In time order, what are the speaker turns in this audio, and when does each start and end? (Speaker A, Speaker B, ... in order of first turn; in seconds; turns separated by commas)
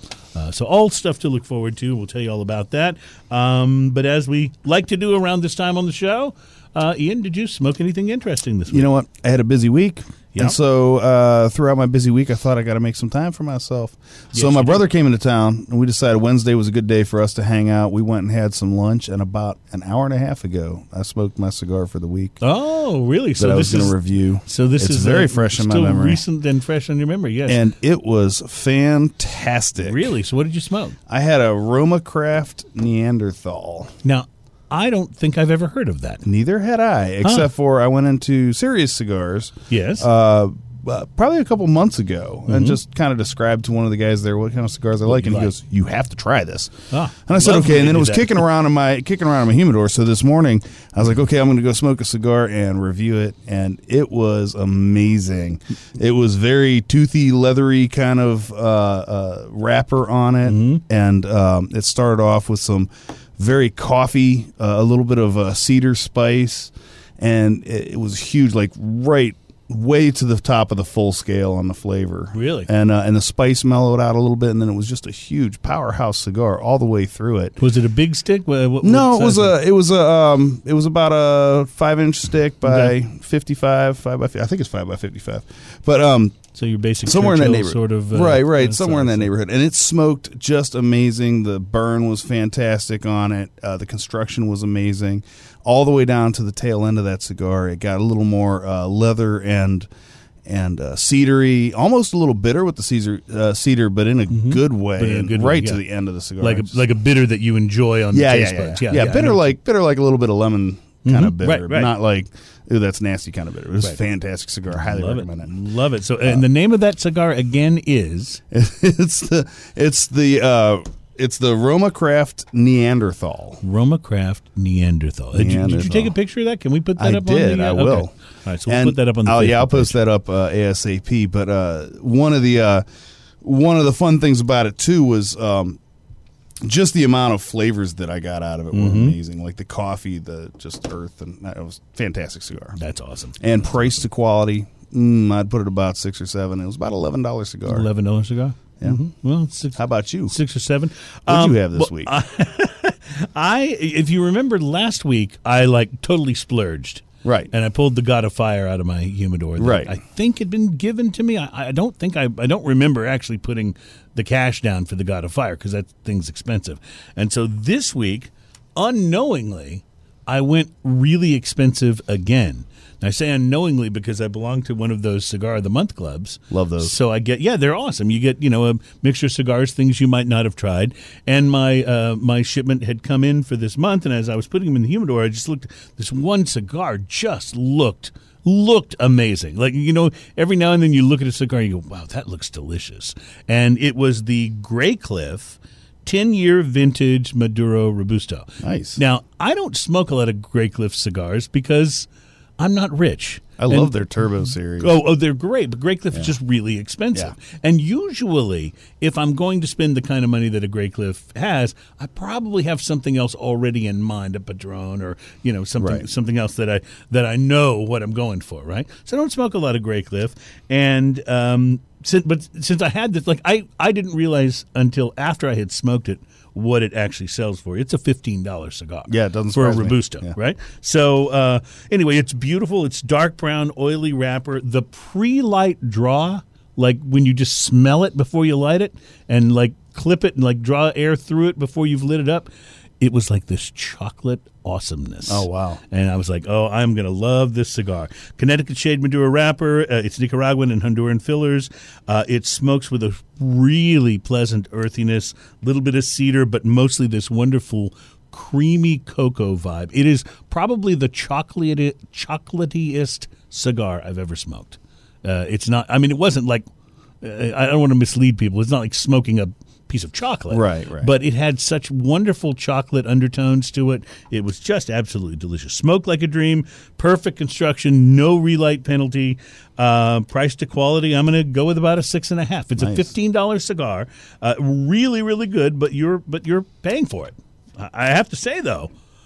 Speaker A: 0.3-8.9, Speaker B: 8.7-22.4, Speaker A: 14.3-14.8, Speaker A: 22.4-27.6, Speaker B: 23.4-26.2, Speaker B: 27.5-30.1, Speaker A: 29.8-31.0, Speaker B: 31.1-33.9, Speaker A: 34.0-36.2, Speaker B: 36.2-77.6, Speaker A: 37.2-37.5, Speaker A: 39.7-40.1, Speaker A: 42.5-42.8, Speaker A: 45.1-45.5, Speaker A: 46.9-48.5, Speaker A: 60.4-60.8, Speaker A: 72.3-72.7, Speaker A: 77.6-79.6, Speaker B: 78.8-86.4, Speaker A: 82.6-82.9, Speaker A: 86.5-89.3, Speaker B: 87.0-99.9, Speaker B: 100.4-106.8, Speaker A: 104.3-105.8, Speaker A: 106.4-109.5, Speaker B: 108.1-115.5, Speaker A: 111.0-111.9, Speaker A: 114.7-118.4, Speaker B: 118.5-123.6, Speaker A: 123.6-130.0, Speaker B: 125.3-126.2, Speaker B: 127.0-128.1, Speaker B: 128.7-132.8, Speaker B: 133.4-135.8, Speaker B: 136.6-142.8, Speaker A: 138.7-139.2, Speaker A: 142.8-143.8, Speaker B: 143.4-147.9, Speaker A: 147.7-202.1, Speaker B: 149.7-150.3, Speaker B: 151.3-152.2, Speaker B: 157.2-157.5, Speaker B: 159.6-160.0, Speaker B: 176.5-176.9, Speaker B: 198.6-199.0, Speaker A: 202.6-203.9, Speaker B: 203.6-205.0, Speaker A: 204.8-266.6, Speaker B: 215.8-216.1, Speaker B: 229.1-230.3, Speaker B: 245.3-245.8, Speaker A: 267.2-288.9, Speaker B: 270.5-271.1, Speaker B: 282.8-283.1